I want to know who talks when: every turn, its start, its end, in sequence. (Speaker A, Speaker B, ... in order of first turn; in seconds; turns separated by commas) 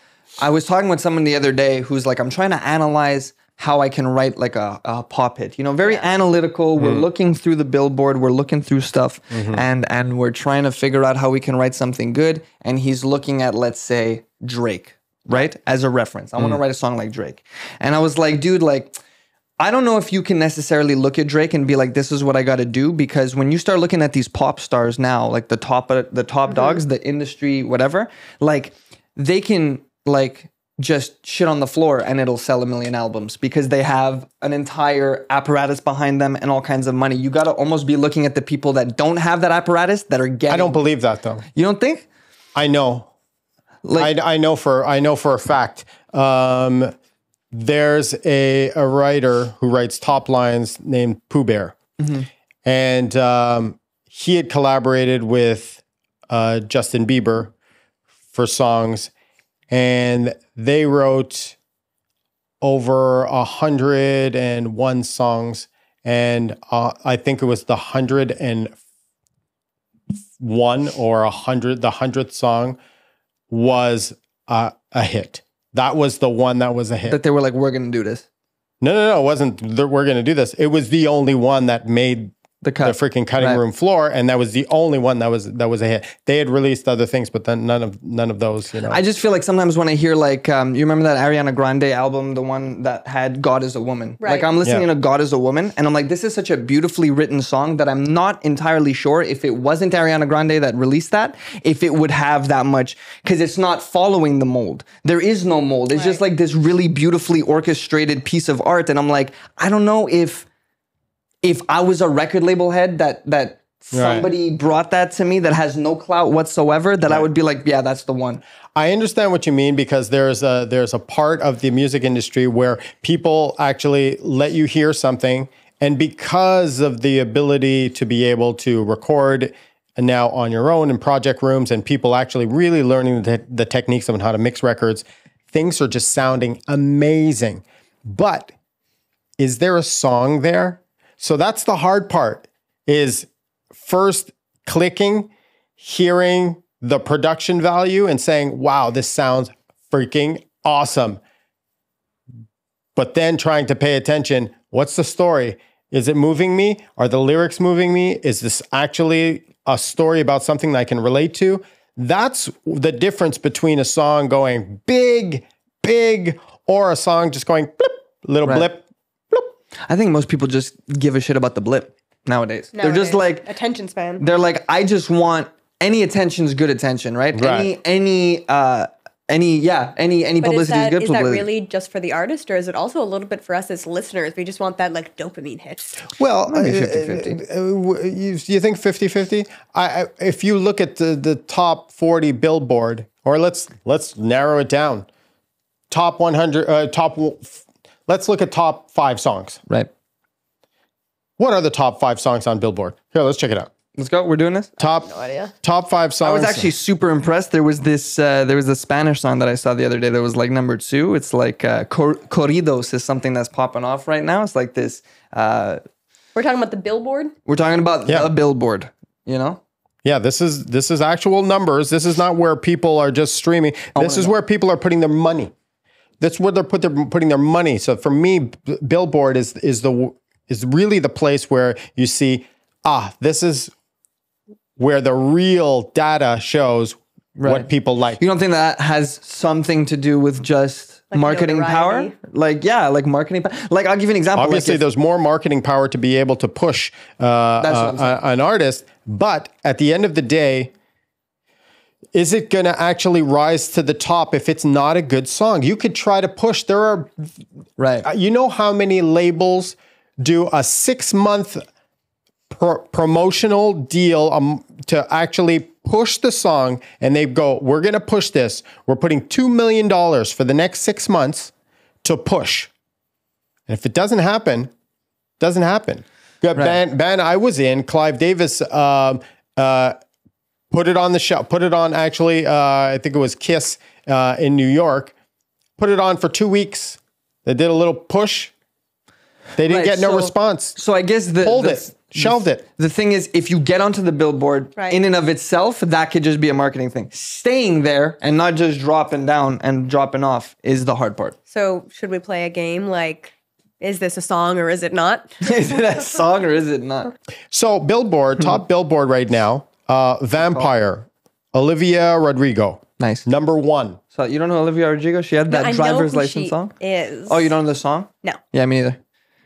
Speaker A: 0.4-18.9, Speaker B: 6.8-7.1, Speaker B: 9.3-9.6, Speaker A: 19.6-40.8, Speaker C: 26.5-26.8, Speaker B: 40.5-41.4, Speaker A: 41.5-42.1, Speaker B: 42.6-43.1, Speaker A: 43.8-44.1, Speaker B: 44.0-46.9, Speaker B: 47.5-51.8, Speaker A: 52.0-52.3, Speaker B: 52.7-57.5, Speaker B: 58.3-59.1, Speaker B: 59.7-61.6, Speaker B: 62.6-68.8, Speaker B: 70.4-72.8, Speaker B: 73.5-77.2, Speaker A: 77.0-78.2, Speaker B: 78.8-82.3, Speaker A: 82.6-83.6, Speaker B: 82.8-89.0, Speaker A: 88.8-110.5, Speaker C: 94.2-94.5, Speaker C: 105.9-106.2, Speaker A: 111.4-118.4, Speaker B: 113.9-114.3, Speaker B: 118.8-138.5, Speaker B: 139.4-151.2, Speaker B: 153.0-169.5, Speaker A: 169.9-173.5, Speaker C: 172.8-174.2, Speaker A: 174.2-181.5, Speaker B: 177.3-177.7, Speaker C: 180.4-186.0, Speaker B: 186.2-195.1, Speaker A: 186.5-187.4, Speaker B: 195.9-199.6, Speaker B: 201.4-203.7, Speaker A: 204.0-204.7, Speaker B: 204.8-205.1, Speaker C: 204.8-205.5, Speaker B: 205.6-206.7, Speaker A: 206.2-215.8, Speaker C: 216.3-217.3, Speaker A: 217.5-219.6, Speaker B: 220.0-225.5, Speaker A: 224.0-224.3, Speaker B: 226.2-233.7, Speaker B: 234.8-238.2, Speaker A: 237.4-237.7, Speaker A: 238.2-244.8, Speaker C: 241.1-242.2, Speaker B: 244.3-250.7, Speaker A: 247.6-248.2, Speaker B: 252.1-257.3, Speaker A: 257.8-258.1, Speaker B: 258.0-261.6, Speaker B: 262.5-271.5, Speaker B: 272.0-272.7, Speaker B: 273.7-274.7, Speaker B: 275.4-280.0, Speaker B: 280.7-285.1, Speaker B: 285.8-288.5, Speaker B: 289.6-290.8, Speaker A: 289.7-301.4, Speaker B: 291.4-292.6, Speaker C: 301.5-305.3, Speaker A: 305.4-307.1, Speaker B: 307.5-314.0, Speaker A: 310.4-310.7, Speaker A: 313.0-313.3, Speaker A: 314.1-316.8, Speaker C: 315.5-317.5, Speaker A: 317.3-319.0